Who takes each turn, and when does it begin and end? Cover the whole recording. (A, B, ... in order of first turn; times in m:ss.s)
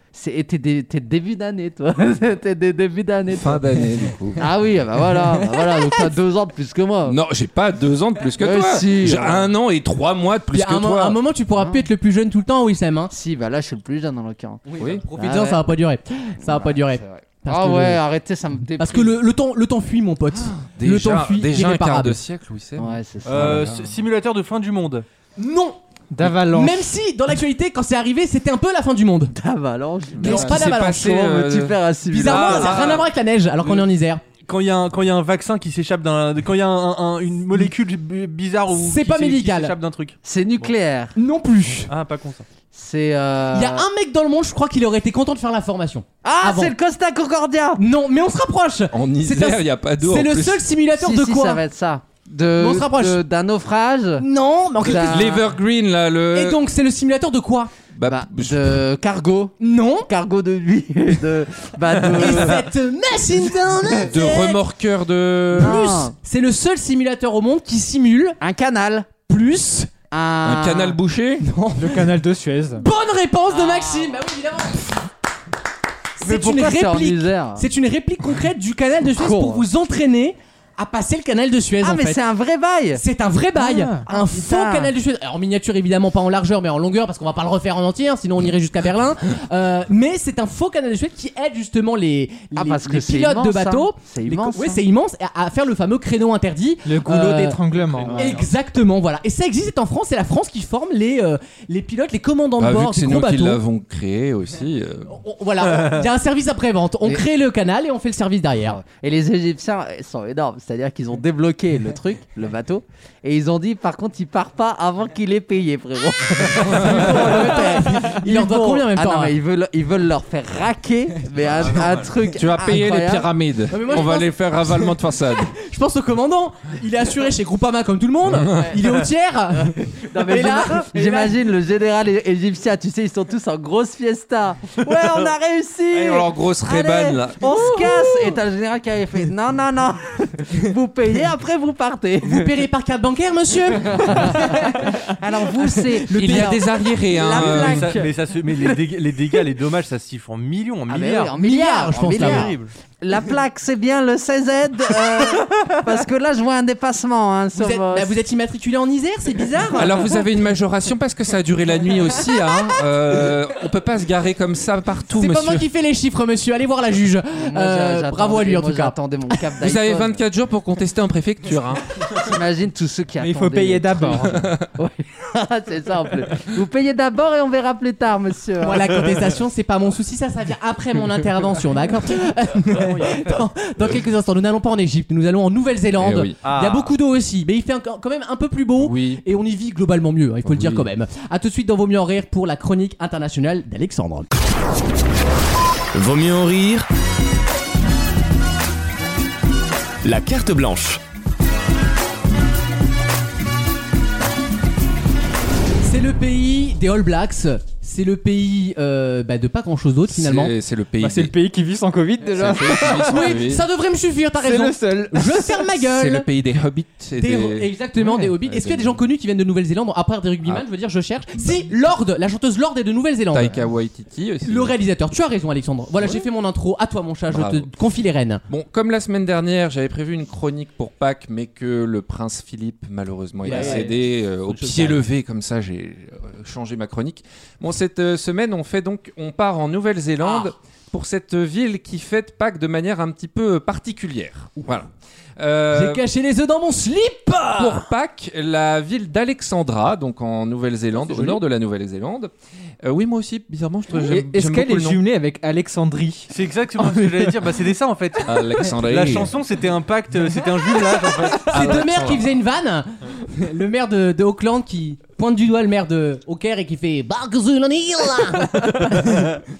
0:00.1-0:03.6 A
0:03.3-0:04.4 B
0:04.4-0:07.2 A
0:07.0-0:11.2 B
0:08.4-0:09.5 A
0:10.5-0:13.1 C
0:11.6-0:11.9 A
0:13.1-0:14.6 A
0:14.6-0:18.0 C
0:15.1-0:15.6 A
0:16.4-0:19.2 A
0:18.8-0:22.2 C
0:20.3-0:24.0 B
0:22.8-0:23.6 A
0:23.2-0:25.1 D
0:25.4-0:29.3 C
0:26.1-0:26.9 E
0:29.3-0:33.0 A
0:30.2-0:31.1 C
0:30.2-0:33.0 B
0:32.1-0:34.2 C
0:32.3-0:33.0 D
0:33.6-0:33.9 D
0:34.4-0:40.7 D
0:38.7-0:39.7 C
0:40.2-0:41.2 A
0:41.2-0:41.9 C
0:41.9-0:42.4 D
0:42.7-0:43.9 A
0:43.5-0:46.7 C
0:46.2-0:47.8 A
0:47.8-0:51.6 C
0:48.9-0:50.6 B
0:50.9-0:54.2 A
0:52.6-0:53.2 C
0:54.2-0:55.4 C
0:54.8-0:55.4 A
0:54.9-0:56.6 B
0:56.3-0:57.7 C
0:57.9-0:58.8 B
0:58.0-1:02.7 A
0:59.6-1:00.1 C
1:02.1-1:04.6 C
1:03.8-1:04.1 A
1:04.1-1:05.9 B
1:05.6-1:06.1 A
1:05.6-1:08.4 C
1:08.4-1:09.1 A
1:09.3-1:09.9 C
1:10.1-1:11.0 A
1:10.4-1:11.4 B
1:11.4-1:12.1 C
1:11.8-1:12.8 E
1:12.8-1:15.0 C
1:13.5-1:14.2 A
1:16.2-1:22.2 C
1:16.2-1:17.7 A
1:19.0-1:19.7 A
1:21.8-1:23.0 A
1:22.9-1:37.6 C
1:23.6-1:24.1 E
1:24.1-1:24.9 A
1:32.5-1:34.8 A
1:36.8-1:38.4 E
1:37.9-1:38.4 D
1:38.1-1:43.6 C
1:42.6-1:45.1 B
1:45.1-1:48.8 C
1:48.6-2:03.3 A
1:56.6-1:59.3 C
2:01.5-2:02.1 D
2:02.3-2:05.6 B
2:03.7-2:04.9 C
2:05.5-2:11.3 C
2:08.3-2:08.8 B
2:10.0-2:22.5 A
2:15.9-2:17.4 B
2:17.4-2:18.4 C
2:22.2-2:26.6 C
2:23.8-2:28.8 A
2:26.1-2:28.0 B
2:27.3-2:31.4 D
2:30.9-2:38.2 A
2:31.4-2:32.5 C
2:31.9-2:32.7 D
2:37.6-2:40.2 C
2:39.7-2:45.6 B
2:45.1-2:49.4 C
2:47.4-2:50.2 A
2:49.6-2:51.8 B
2:52.2-2:59.1 A
2:53.2-2:54.4 E
2:54.4-2:54.7 B
2:58.6-3:14.3 C
3:06.0-3:06.4 B
3:06.4-3:06.9 D
3:08.8-3:09.2 B
3:10.4-3:10.8 B
3:15.9-3:16.9 F
3:20.0-3:21.0 F
3:25.8-3:30.5 C
3:30.1-3:31.3 B
3:31.0-3:33.3 E
3:32.3-3:33.6 B
3:32.8-3:36.2 C
3:34.4-3:35.6 E
3:35.8-3:37.7 B
3:37.2-3:43.6 C
3:38.2-3:39.0 B
3:41.4-3:41.7 B
3:43.3-3:44.8 B
3:44.4-3:48.4 C
3:46.0-3:46.3 B
3:47.3-3:47.7 B
3:48.5-4:06.0 B
3:53.4-3:55.0 C
3:53.5-3:53.7 A
4:05.7-4:07.9 C
4:07.6-4:12.3 B
4:11.1-4:11.4 D
4:12.8-4:15.0 B
4:13.9-4:16.3 E
4:16.3-4:22.2 D
4:18.2-4:19.3 B
4:21.5-4:29.3 C
4:21.6-4:22.2 B